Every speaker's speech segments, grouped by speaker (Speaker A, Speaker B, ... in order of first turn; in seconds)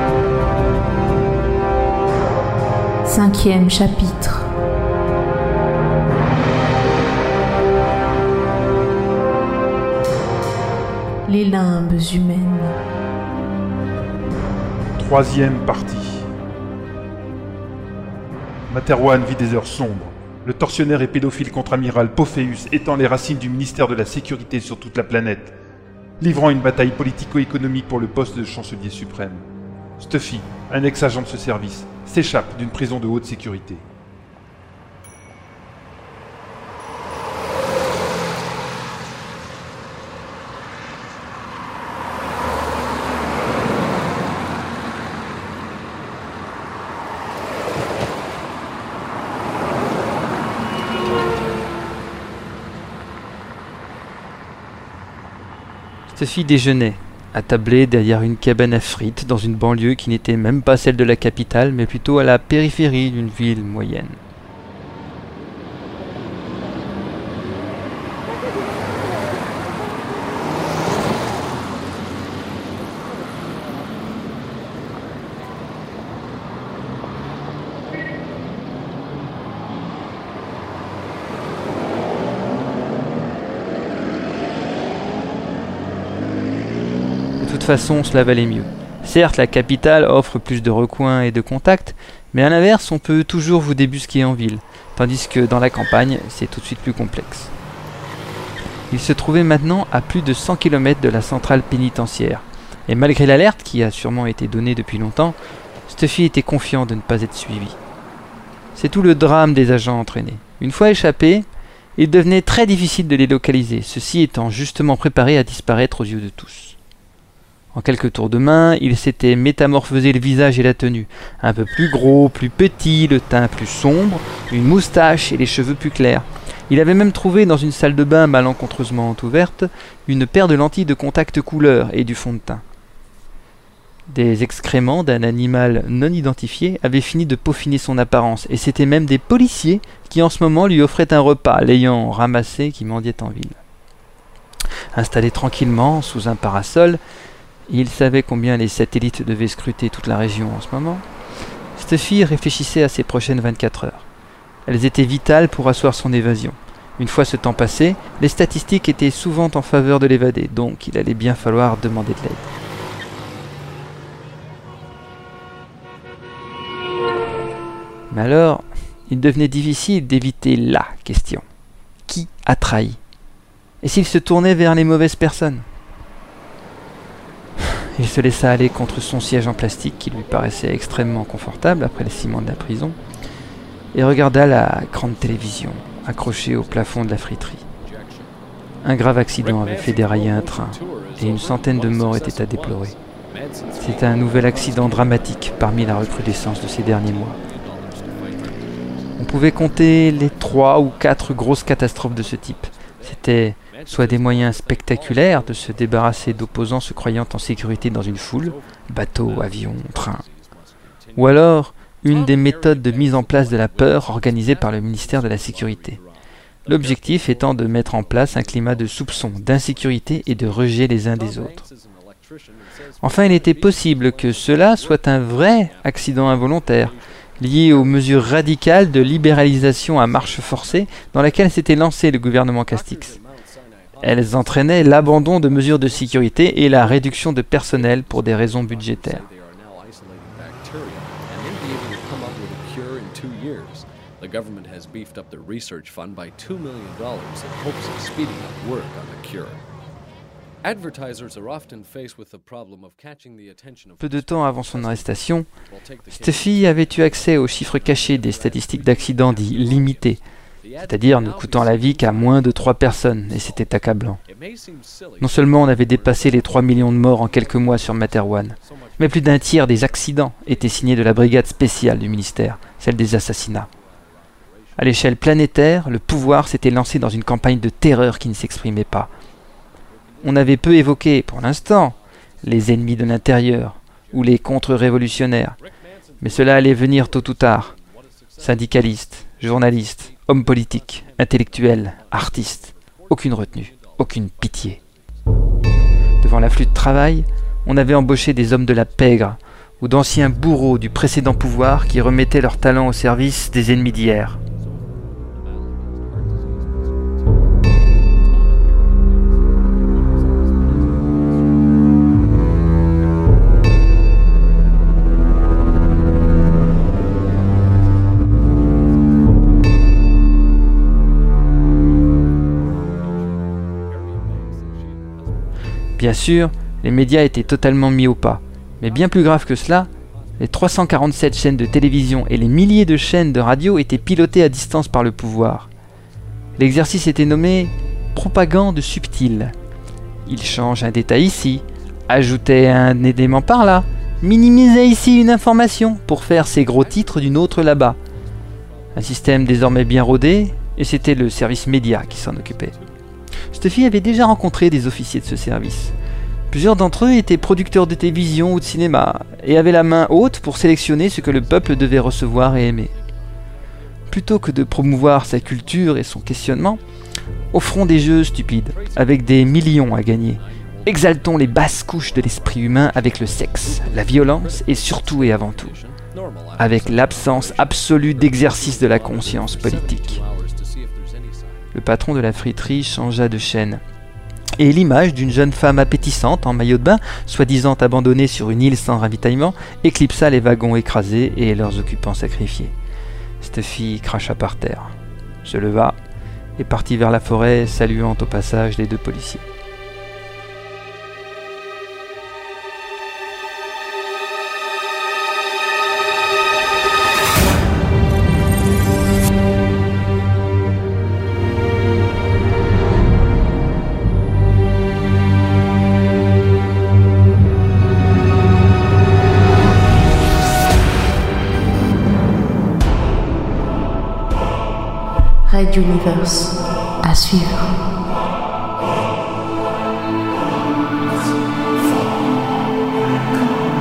Speaker A: 3.0-4.5, 11.2-12.8, 425.4-427.7
Speaker B: 15.0-16.2, 18.7-25.5, 26.2-29.4, 30.0-33.8
Speaker C: 56.1-64.2, 87.4-97.5, 98.9-105.4, 105.9-107.8, 108.7-116.8, 117.7-132.6, 134.1-143.6, 144.9-147.0, 147.7-151.0, 151.7-154.1, 154.7-162.5, 168.1-171.4, 172.1-173.0, 173.8-175.6, 177.9-183.0, 183.9-187.6, 188.8-192.9, 193.8-197.4, 199.2-210.2, 211.2-216.0, 216.7-221.6, 223.0-233.2, 234.0-239.2, 254.0-255.5, 256.1-260.2, 260.8-264.2, 265.2-273.7, 274.8-279.1, 280.2-285.6, 286.2-287.7, 288.4-294.8, 296.2-304.4, 326.0-335.7, 336.6-339.5, 340.2-348.0, 348.9-352.7, 353.5-355.9, 356.5-362.9, 364.1-366.8, 367.5-375.8, 376.6-380.2, 381.7-383.8, 384.6-392.7, 393.4-394.9, 395.4-396.0, 396.6-399.4
Speaker D: 186.4-187.0, 187.8-188.3, 189.4-199.2, 200.1-201.3, 201.9-203.0, 203.7-207.3, 207.9-211.2, 212.2-216.2, 216.7-220.6, 221.2-227.0, 227.6-228.1, 228.9-231.4, 232.8-249.6, 250.7-253.9, 255.8-257.0, 257.5-260.0, 260.6-262.6, 264.3-269.1, 286.2-288.9, 290.2-291.8, 292.6-294.0, 294.5-294.8, 346.9-347.4, 351.9-352.9, 368.7-381.6